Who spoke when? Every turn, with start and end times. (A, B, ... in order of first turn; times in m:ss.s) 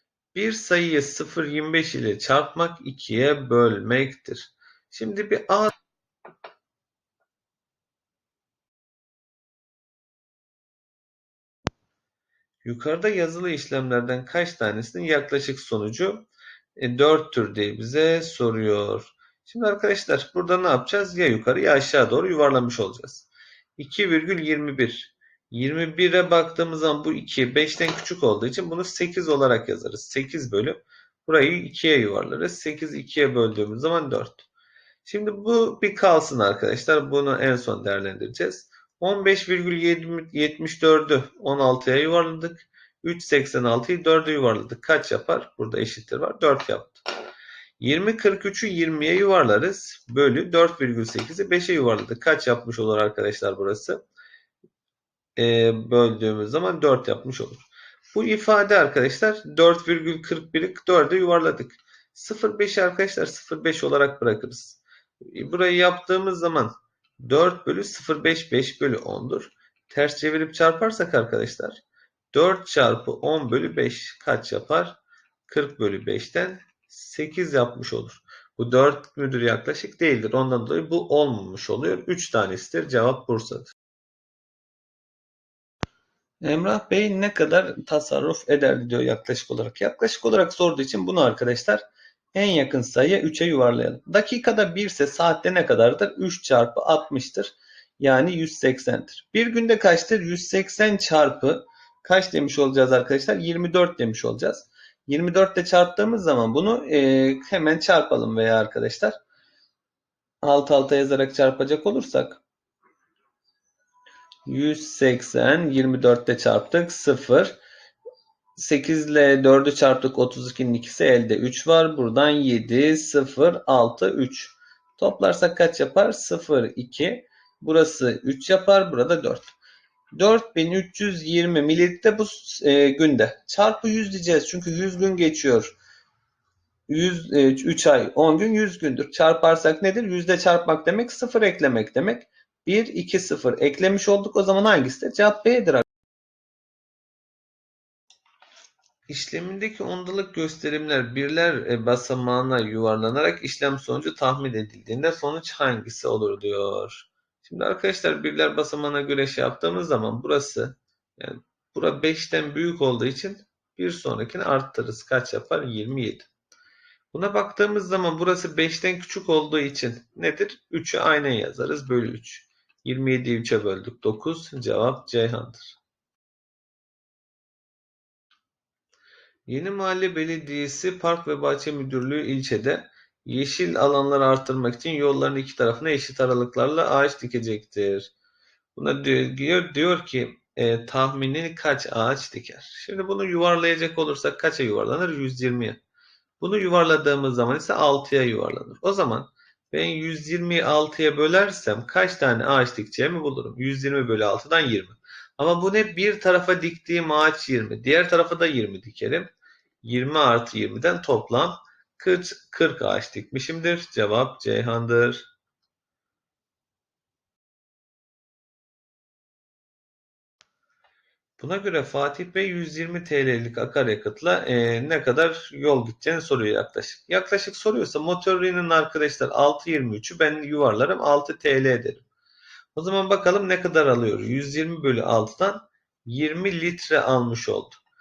0:00.3-0:05.7 A
0:12.6-0:34.5 A
0:35.0-0:47.0 A
0:47.8-0:54.0 A
0:55.4-1:11.8 A
1:12.3-1:23.7 A
1:26.4-1:31.8 A
1:32.3-1:49.2 A
1:50.4-1:52.4 A
1:54.5-1:57.6 A
1:58.6-2:09.5 A
2:10.2-2:15.7 A
2:16.9-2:25.9 A
2:29.1-2:46.3 A
2:47.1-2:55.8 A
2:59.5-3:08.1 A
3:08.8-3:15.8 A
3:16.4-3:29.3 A
3:29.8-3:35.3 A
3:41.4-3:52.0 A
3:52.8-3:57.8 A